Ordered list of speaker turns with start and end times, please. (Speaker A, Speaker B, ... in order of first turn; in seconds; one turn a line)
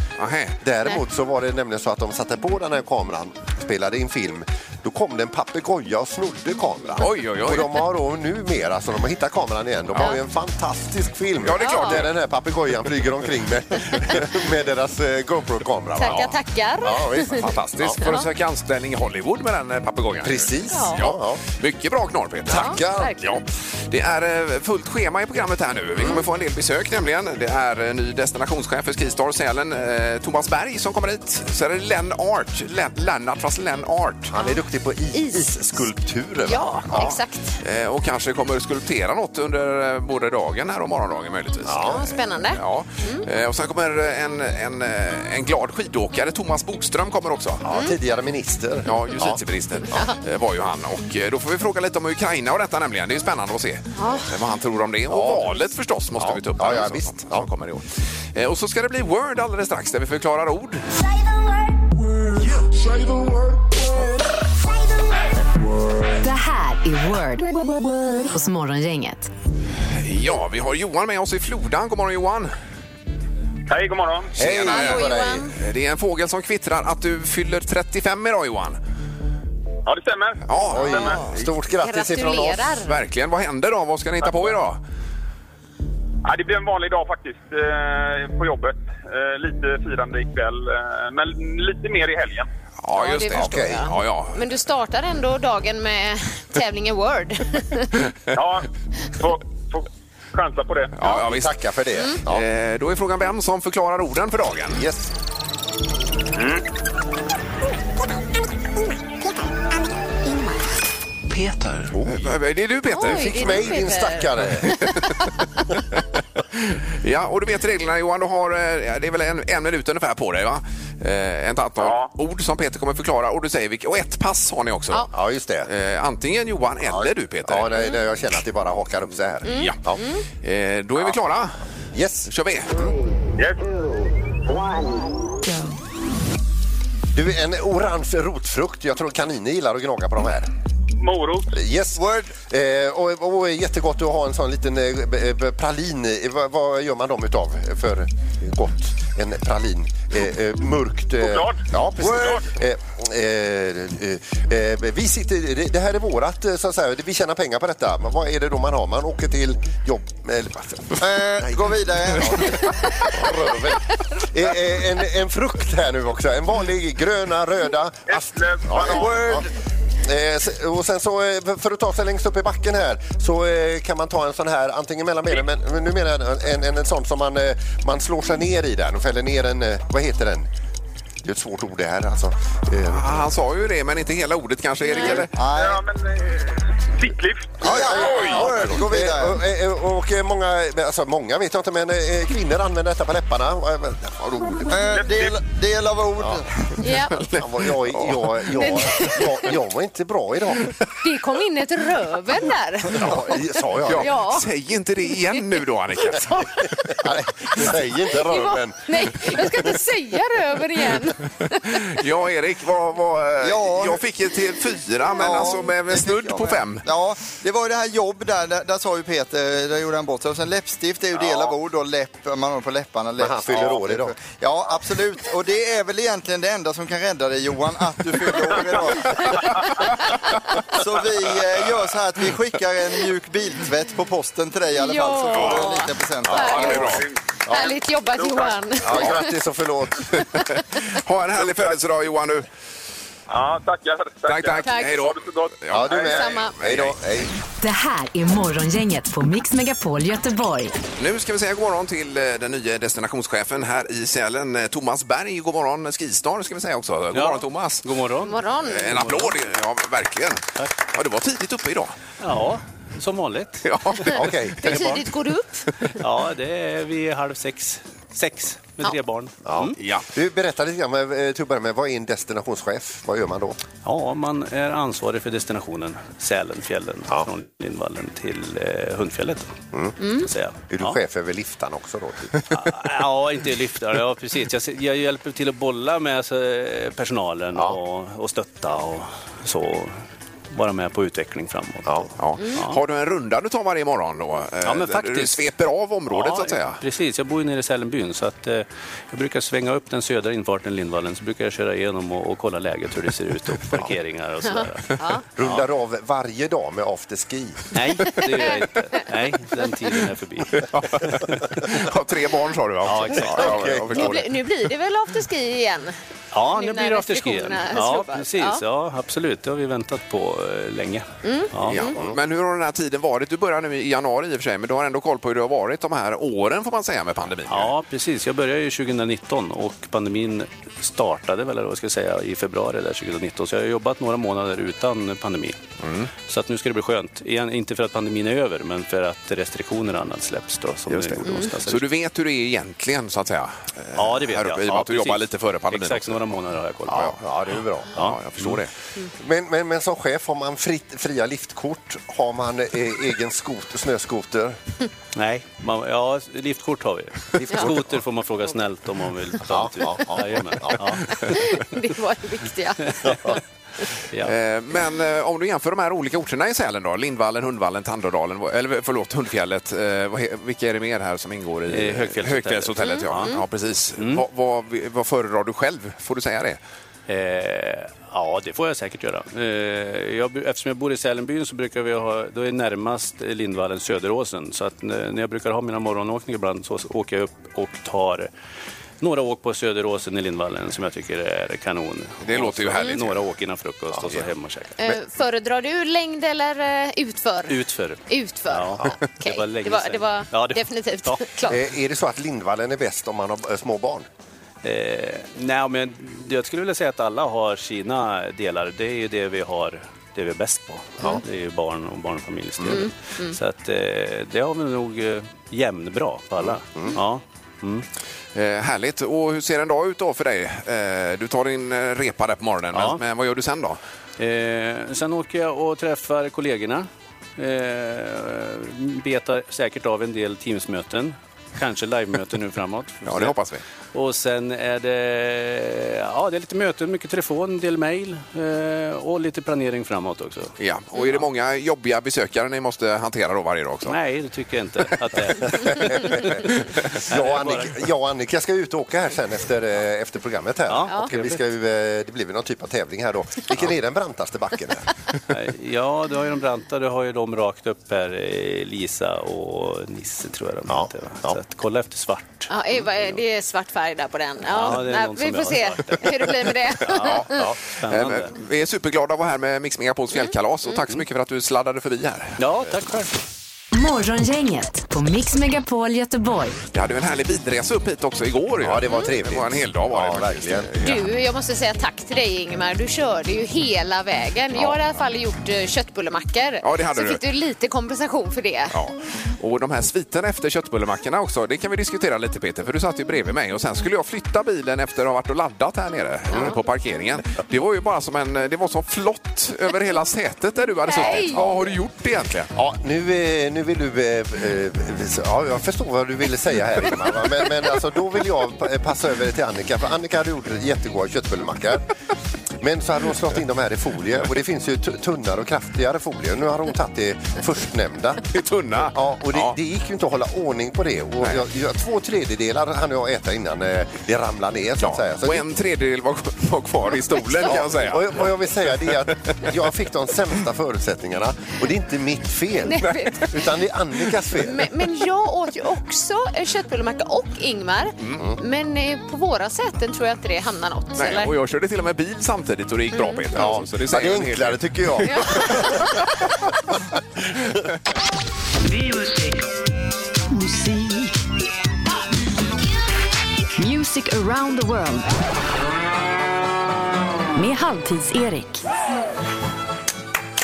Speaker A: 0.2-0.6
Speaker B: 0.6-18.0
Speaker A: 7.0-7.7
Speaker A: 11.4-12.1
Speaker C: 11.6-12.0
Speaker C: 15.9-17.5
Speaker A: 17.4-34.3
Speaker C: 18.0-18.2
Speaker B: 20.2-21.4
Speaker C: 20.7-21.0
Speaker B: 22.5-23.1
Speaker C: 22.5-23.2
Speaker B: 26.0-26.2
Speaker B: 34.3-37.2
Speaker C: 35.1-35.5
Speaker C: 36.5-37.5
Speaker A: 37.6-47.6
Speaker B: 41.6-42.1
Speaker C: 41.8-43.2
Speaker B: 47.6-49.4
Speaker A: 48.9-60.8
Speaker C: 54.0-54.3
Speaker B: 55.1-55.5
Speaker B: 56.1-57.5
Speaker D: 66.2-67.6
Speaker D: 68.2-69.3
Speaker A: 70.0-72.5
Speaker E: 73.7-74.3
Speaker B: 74.4-75.5
Speaker A: 74.4-78.8
Speaker C: 74.6-75.5
Speaker E: 79.8-81.1
Speaker A: 80.5-81.2
Speaker B: 80.7-82.7
Speaker C: 81.0-82.9
Speaker A: 82.8-84.8
Speaker E: 86.2-92.5
Speaker A: 92.8-94.4
Speaker C: 92.9-98.0
Speaker B: 93.3-93.9
Speaker E: 98.3-100.9
Speaker A: 101.0-101.5
Speaker B: 101.1-102.4
Speaker A: 102.2-104.8
Speaker B: 104.7-105.1
Speaker E: 106.4-106.6
Speaker A: 111.4-113.8
Speaker B: 111.8-112.3
Speaker C: 112.9-115.2
Speaker B: 113.0-114.8
Speaker A: 114.6-115.3
Speaker A: 116.5-125.1
Speaker E: 121.8-122.1
Speaker B: 125.1-125.7
Speaker A: 125.6-127.7
Speaker B: 126.9-130.0
Speaker C: 129.5-130.2
Speaker A: 129.5-129.8
Speaker A: 130.4-131.6
Speaker B: 131.9-132.9
Speaker A: 132.2-132.8
Speaker E: 133.4-133.7
Speaker B: 137.1-140.5
Speaker E: 141.0-141.5
Speaker B: 141.5-169.5
Speaker F: 141.9-142.3
Speaker E: 151.2-151.6
Speaker F: 152.0-152.4
Speaker F: 161.0-162.8
Speaker E: 168.1-169.3
Speaker F: 169.0-169.4
Speaker B: 170.0-180.5
Speaker B: 181.2-183.3
Speaker A: 182.9-185.3
Speaker C: 184.9-185.2
Speaker F: 185.3-185.8
Speaker E: 185.5-188.4
Speaker B: 187.6-195.0
Speaker F: 187.6-189.4
Speaker F: 194.7-196.7
Speaker E: 195.0-195.3
Speaker B: 196.2-196.4
Speaker C: 196.8-197.3
Speaker A: 197.2-198.3
Speaker B: 197.2-200.7
Speaker C: 198.5-199.5
Speaker C: 201.0-203.3
Speaker B: 202.9-204.1
Speaker A: 203.8-206.3
Speaker C: 203.9-204.4
Speaker C: 206.0-206.9
Speaker B: 206.9-209.6
Speaker C: 207.6-211.8
Speaker A: 211.7-216.8
Speaker F: 213.4-214.0
Speaker F: 215.2-237.0
Speaker B: 223.2-224.1
Speaker C: 234.7-236.8
Speaker A: 235.3-235.7
Speaker E: 236.4-237.6
Speaker A: 236.6-237.0
Speaker C: 237.5-239.3
Speaker E: 238.2-238.6
Speaker B: 238.8-240.1
Speaker A: 240.5-242.4
Speaker E: 243.3-246.1
Speaker A: 244.2-247.0
Speaker C: 244.6-245.0
Speaker B: 245.7-247.3
Speaker C: 246.0-246.6
Speaker D: 247.6-250.8
Speaker A: 251.0-257.9
Speaker G: 257.1-259.3
Speaker C: 258.2-259.1
Speaker A: 258.7-261.9
Speaker G: 260.6-260.8
Speaker G: 262.2-263.7
Speaker A: 263.6-264.4
Speaker B: 264.1-264.8
Speaker C: 264.6-265.7
Speaker G: 264.7-265.0
Speaker G: 266.0-269.8
Speaker B: 269.4-273.6
Speaker A: 269.8-270.1
Speaker G: 273.8-279.6
Speaker C: 280.0-280.3
Speaker G: 280.1-281.0
Speaker B: 280.7-282.8
Speaker G: 282.5-290.0
Speaker G: 290.5-292.8
Speaker A: 292.2-296.8
Speaker G: 294.6-295.5
Speaker G: 296.1-305.6
Speaker C: 304.4-305.2
Speaker B: 305.4-307.6
Speaker G: 307.7-311.4
Speaker A: 310.6-314.2
Speaker G: 312.8-313.8
Speaker B: 313.4-314.2
Speaker C: 313.9-316.0
Speaker G: 316.3-321.8
Speaker C: 316.5-318.6
Speaker C: 321.2-322.0
Speaker A: 321.7-327.7
Speaker G: 327.5-335.6
Speaker A: 335.8-336.1
Speaker G: 336.2-341.9
Speaker A: 340.9-346.4
Speaker G: 343.9-347.1
Speaker B: 346.9-347.9
Speaker A: 347.9-348.7
Speaker G: 347.9-348.6
Speaker B: 349.2-354.6
Speaker G: 355.1-361.1
Speaker B: 357.3-358.0
Speaker B: 359.4-361.0
Speaker C: 361.2-363.4
Speaker G: 363.0-363.4
Speaker A: 364.2-376.6
Speaker G: 371.7-373.4
Speaker G: 374.0-374.2
Speaker G: 377.1-388.3
Speaker G: 389.0-394.8
Speaker A: 392.2-393.1
Speaker C: 394.8-401.6
Speaker G: 397.5-401.2
Speaker B: 401.5-404.1
Speaker G: 404.6-417.9
Speaker C: 412.7-413.3
Speaker B: 416.4-417.0
Speaker A: 418.3-423.8
Speaker G: 422.7-423.0
Speaker G: 424.2-433.4
Speaker A: 433.0-433.6
Speaker G: 433.9-440.5
Speaker A: 440.6-444.0
Speaker G: 443.9-446.5
Speaker B: 445.5-446.5
Speaker B: 447.1-454.9
Speaker G: 447.1-447.8
Speaker G: 450.7-451.4
Speaker G: 455.3-463.2
Speaker B: 460.7-461.4
Speaker C: 462.5-467.4
Speaker G: 464.4-466.3
Speaker G: 466.9-468.4
Speaker A: 466.9-467.3
Speaker A: 467.9-472.4
Speaker G: 472.4-473.1
Speaker D: 473.7-476.6
Speaker A: 476.7-481.1
Speaker B: 478.6-480.7
Speaker C: 480.8-488.7
Speaker A: 486.6-487.2
Speaker A: 488.7-502.5
Speaker C: 500.9-501.4
Speaker B: 501.0-501.6
Speaker B: 502.5-511.8
Speaker B: 512.6-518.2
Speaker A: 518.3-519.5
Speaker B: 518.8-525.5
Speaker A: 524.8-528.4
Speaker B: 527.4-534.7
Speaker A: 528.9-529.5
Speaker C: 532.6-533.3
Speaker C: 534.4-541.3
Speaker A: 541.0-545.8
Speaker C: 542.9-543.2
Speaker B: 543.3-545.9
Speaker C: 545.0-545.9
Speaker D: 550.3-551.1
Speaker D: 553.6-555.1
Speaker D: 557.3-558.6